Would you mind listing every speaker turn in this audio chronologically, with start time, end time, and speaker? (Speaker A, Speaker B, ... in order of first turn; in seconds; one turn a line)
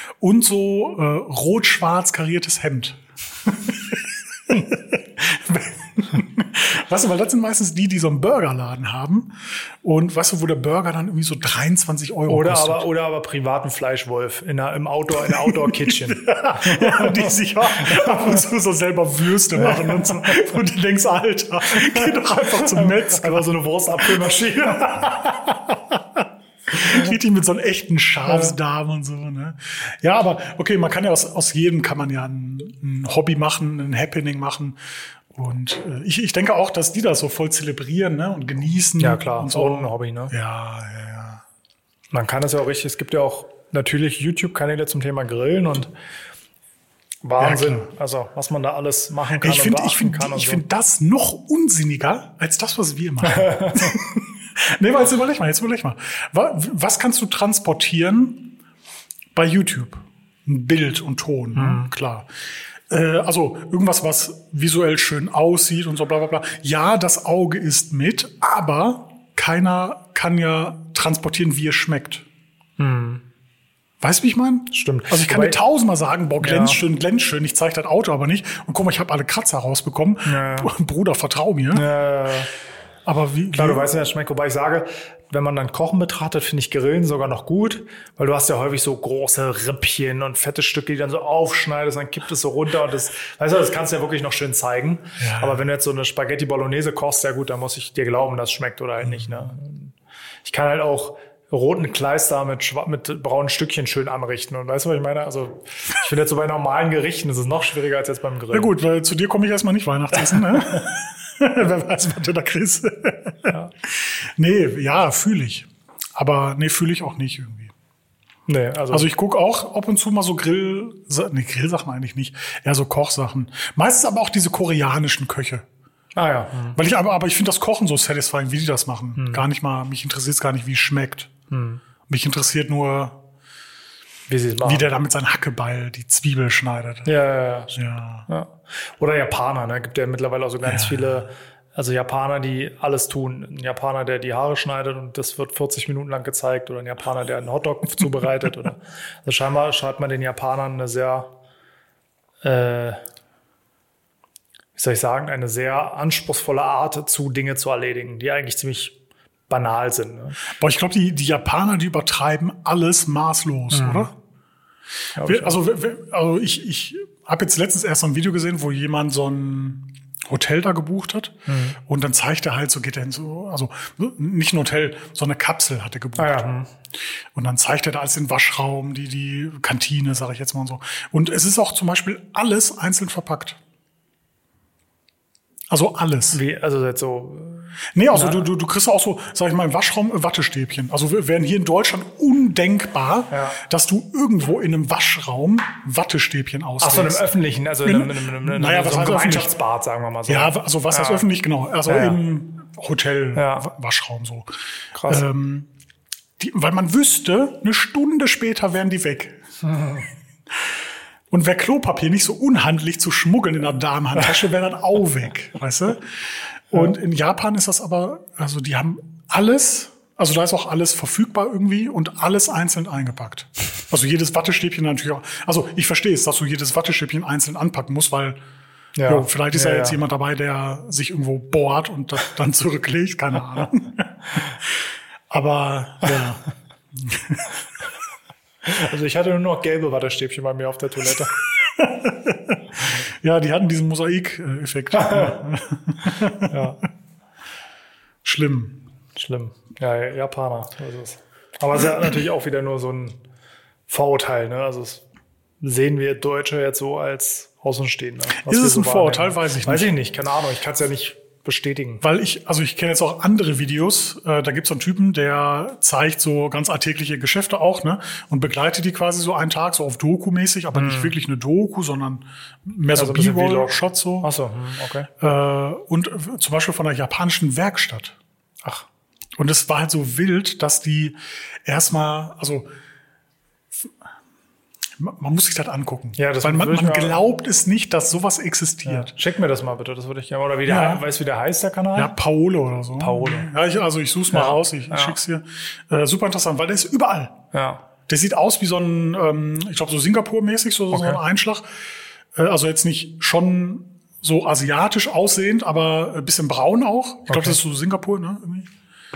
Speaker A: 0.2-12.9
Speaker B: 12.3-18.4
Speaker A: 15.2-23.5
Speaker B: 19.5-20.4
Speaker B: 21.6-25.1
Speaker A: 24.0-41.4
Speaker B: 28.3-28.6
Speaker B: 39.0-40.3
Speaker B: 42.1-45.9
Speaker B: 47.2-50.6
Speaker A: 47.4-47.9
Speaker A: 49.4-58.5
Speaker B: 53.2-54.0
Speaker A: 59.3-62.3
Speaker B: 61.5-61.9
Speaker A: 62.9-72.2
Speaker B: 72.8-73.2
Speaker A: 74.0-81.9
Speaker B: 74.7-75.6
Speaker B: 76.4-76.8
Speaker B: 80.2-80.7
Speaker B: 81.7-82.5
Speaker A: 83.0-83.9
Speaker B: 83.5-99.9
Speaker A: 95.2-95.6
Speaker A: 99.0-99.5
Speaker B: 100.4-108.7
Speaker A: 108.5-117.7
Speaker B: 110.4-110.8
Speaker B: 118.5-119.1
Speaker A: 118.9-125.6
Speaker B: 126.2-126.8
Speaker A: 126.7-131.3
Speaker B: 129.2-129.4
Speaker B: 131.5-131.8
Speaker A: 132.1-133.2
Speaker B: 134.3-134.9
Speaker A: 134.6-137.1
Speaker B: 137.0-151.3
Speaker A: 137.7-138.3
Speaker A: 140.6-141.3
Speaker B: 152.4-153.0
Speaker B: 154.8-158.9
Speaker B: 159.5-160.4
Speaker A: 160.5-164.1
Speaker B: 163.7-164.1
Speaker B: 165.2-165.6
Speaker A: 165.2-176.4
Speaker B: 171.5-171.8
Speaker B: 176.2-176.7
Speaker A: 177.3-183.6
Speaker A: 185.7-186.4
Speaker B: 186.3-188.4
Speaker A: 187.9-197.3
Speaker B: 193.3-193.6
Speaker B: 196.8-201.2
Speaker A: 197.8-199.5
Speaker A: 200.3-204.5
Speaker B: 201.8-202.2
Speaker B: 203.3-203.7
Speaker B: 204.9-205.2
Speaker A: 205.1-205.7
Speaker A: 206.4-209.4
Speaker B: 209.7-210.0
Speaker A: 211.3-228.4
Speaker B: 228.9-230.0
Speaker A: 229.1-236.4
Speaker A: 236.9-237.5
Speaker B: 238.6-241.3
Speaker A: 241.6-246.6
Speaker B: 244.9-245.4
Speaker B: 246.2-246.8
Speaker A: 248.2-248.8
Speaker B: 249.1-253.2
Speaker B: 253.9-255.0
Speaker B: 255.6-262.0
Speaker A: 258.3-259.9
Speaker A: 262.0-274.3
Speaker B: 270.7-271.1
Speaker B: 272.9-275.1
Speaker A: 275.2-278.1
Speaker A: 279.4-282.7
Speaker A: 285.0-289.1
Speaker B: 286.1-287.2
Speaker B: 288.9-292.1
Speaker A: 290.6-291.0
Speaker A: 291.9-297.4
Speaker B: 293.0-293.5
Speaker B: 294.3-295.2
Speaker B: 297.5-297.8
Speaker A: 298.1-301.6
Speaker B: 300.9-301.2
Speaker A: 302.3-308.7
Speaker B: 307.3-307.6